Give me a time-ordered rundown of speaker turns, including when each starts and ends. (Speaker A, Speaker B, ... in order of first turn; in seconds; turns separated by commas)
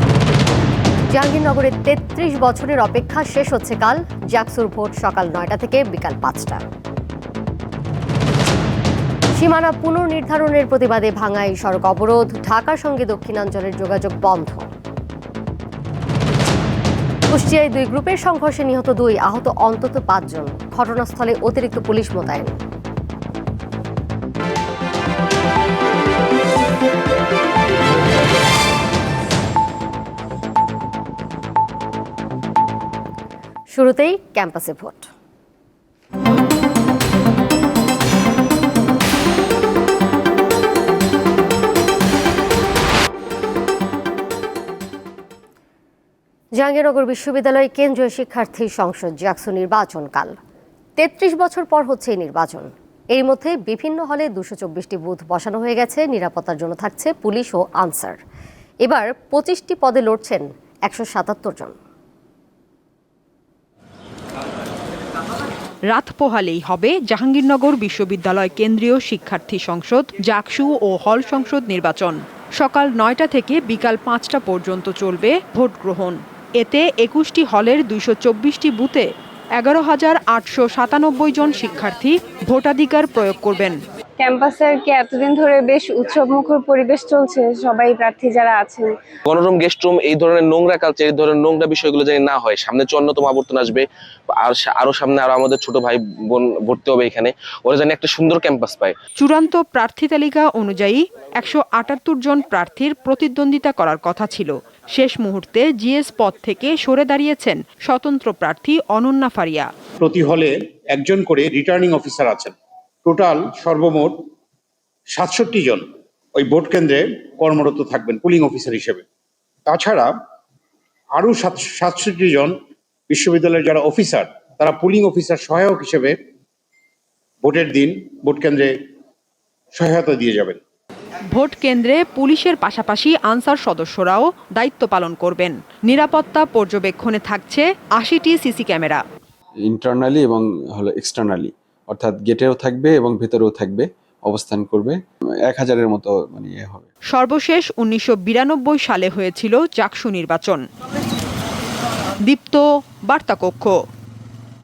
Speaker A: 1.1-6.6, Speaker A: 9.3-14.7, Speaker A: 17.3-22.6, Speaker A: 33.7-35.1, Speaker A: 46.6-50.4, Speaker A: 51.0-58.2, Speaker A: 58.8-61.8, Speaker B: 65.9-79.1, Speaker B: 79.6-83.8, Speaker C: 84.2-88.9, Speaker D: 89.3-93.8, Speaker D: 94.3-98.9, Speaker B: 99.2-109.7, Speaker E: 110.0-112.5, Speaker E: 113.0-114.2, Speaker E: 115.1-119.0, Speaker E: 119.7-120.1, Speaker E: 121.1-122.5, Speaker E: 123.1-126.2, Speaker E: 127.4-128.8, Speaker E: 129.7-130.6, Speaker B: 131.3-139.0, Speaker F: 139.6-146.9, Speaker B: 147.1-150.6, Speaker B: 152.3-153.7